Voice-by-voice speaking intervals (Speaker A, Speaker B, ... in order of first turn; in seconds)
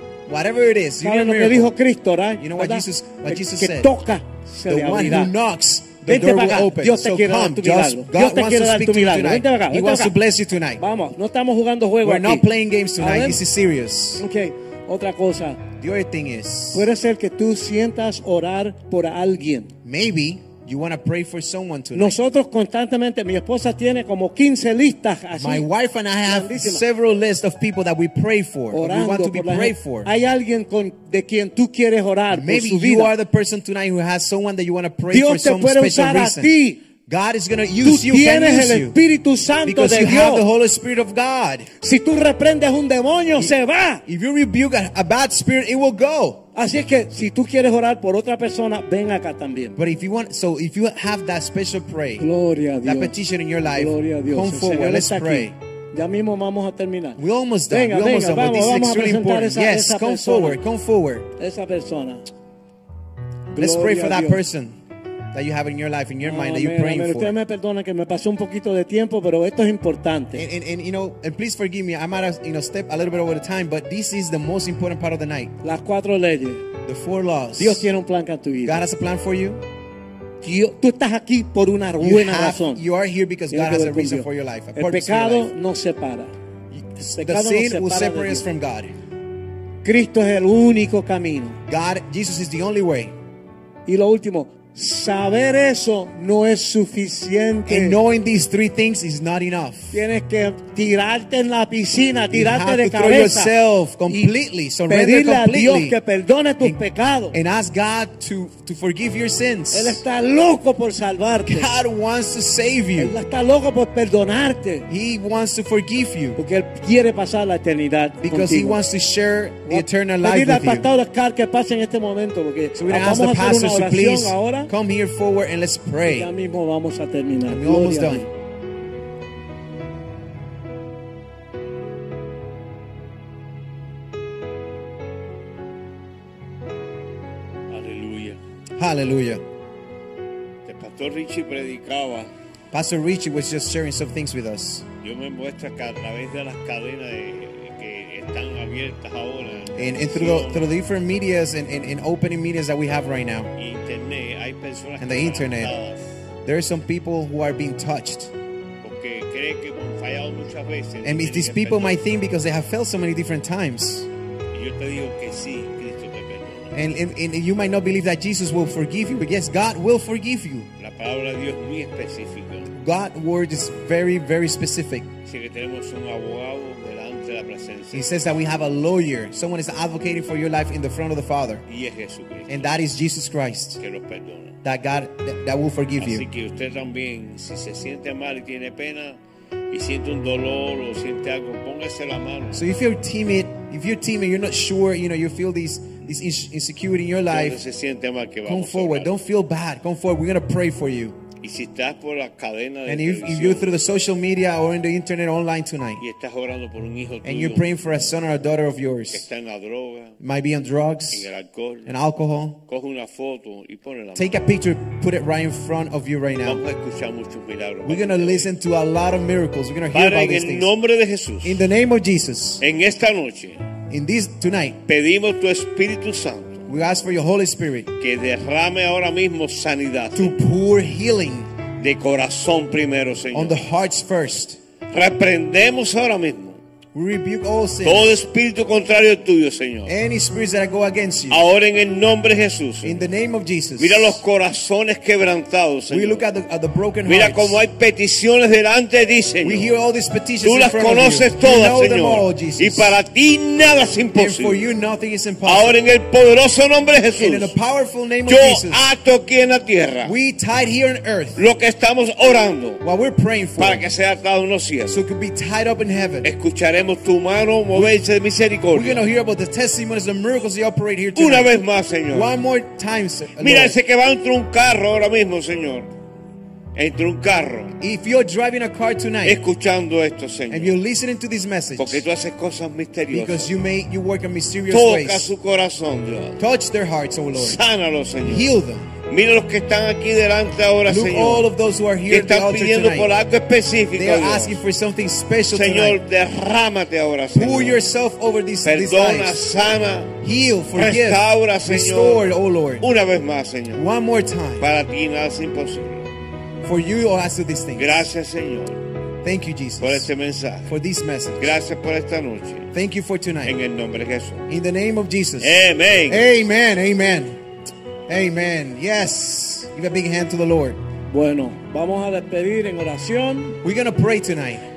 Speaker A: 0.3-1.7, 2.4-3.9, 4.7-10.8, 12.0-14.2, 15.8-16.9, 19.8-22.2, 25.3-30.1, 32.3-39.0, 39.6-41.7, 44.1-46.5, 49.8-52.3, 52.8-55.5, 57.2-61.3, 63.6-64.8, 65.3-67.3, 70.3-75.5, 76.8-77.9, 78.6-79.6, 82.0-85.5, 86.7-88.9, 91.7-93.2, 97.7-100.0, 102.3-106.0, 107.3-110.0, 111.5-113.2, 114.9-116.4, 118.2-120.9, 122.8-126.3, 127.5-128.3, 138.8-139.4, 142.7-144.9, 149.8-153.5, 155.0-155.8, 156.4-158.3, 161.0-164.1, 166.7-170.7, 172.7-175.1, 177.9-181.7, 182.5-183.8, 184.6-186.3, 192.5-197.6, 198.4-201.2, 202.9-206.0, 207.2-209.3, 210.2-211.3, 211.9-212.6, 214.2-216.6, 217.8-220.7, 221.4-222.6, 223.9-224.8, 226.7-227.9, 230.2-231.5, 233.3-234.6, 236.9-238.2, 239.9-241.4, 242.8-244.2, 245.9-247.6, 249.4-252.9, 254.1-255.8, 257.2-258.9, 260.0-261.4, 262.8-263.9, 264.9-266.3, 268.7-271.5, 272.1-273.8, 277.8-279.4, 280.5-282.1, 283.1-285.3, 286.4-287.6, 288.2-288.9, 290.9-293.1, 293.9-296.0, 297.3-299.4, 300.2-302.9, 303.7-304.7, 306.6-308.1, 309.2-310.1, 310.7-311.6, 312.7-313.6, 314.5-317.4, 318.1-320.8, 323.6-324.6
Speaker B: 1.0-5.3, 6.1-10.1, 10.8-12.5, 13.0-13.4, 14.2-15.6, 16.7-19.7, 21.9-25.7, 26.2-26.8, 28.7-33.1, 35.1-36.8, 37.8-40.5, 41.8-44.0, 46.5-49.8, 52.2-60.6, 61.4-62.2, 63.5-64.4, 66.2-70.5, 75.6-76.7, 77.6-78.8, 80.4-82.8, 83.5-86.3, 87.0-88.5, 89.8-91.6, 93.9-98.0, 99.9-103.5, 104.1-104.3, 104.9-107.4, 109.7-111.8, 113.0-114.9, 116.4-118.8, 119.7-124.7, 126.1-128.3, 321.1-323.6
Speaker C: 137.7-138.4, 140.7-142.3, 145.0-150.7, 153.6-156.2, 158.8-162.0, 164.5-166.8, 170.8-172.7, 175.2-178.4, 181.7-182.7, 183.8-184.6, 186.0-189.2, 189.7-192.7, 197.3-199.1, 201.4-203.7, 206.0-207.7, 209.1-210.2, 211.1-211.9, 212.7-214.4, 216.4-218.5, 219.9-221.6, 222.6-223.7, 224.8-226.7, 228.0-230.4, 231.8-233.6, 234.9-236.6, 237.8-239.9, 241.3-243.1, 243.8-246.3, 247.1-249.8, 250.4-254.7, 255.4-257.5, 258.3-260.1, 261.4-262.8, 263.6-265.0, 266.2-269.0, 271.1-272.3, 273.4-275.9, 276.8-277.8, 279.2-280.8, 281.8-283.6, 284.7-286.4, 287.3-288.5, 289.1-291.5, 292.1-294.6, 295.5-297.8, 298.6-300.1, 300.8-302.2, 302.8-303.9, 304.6-306.1, 307.8-308.8, 309.8-310.7, 311.4-312.7, 313.4-314.5, 315.4-316.2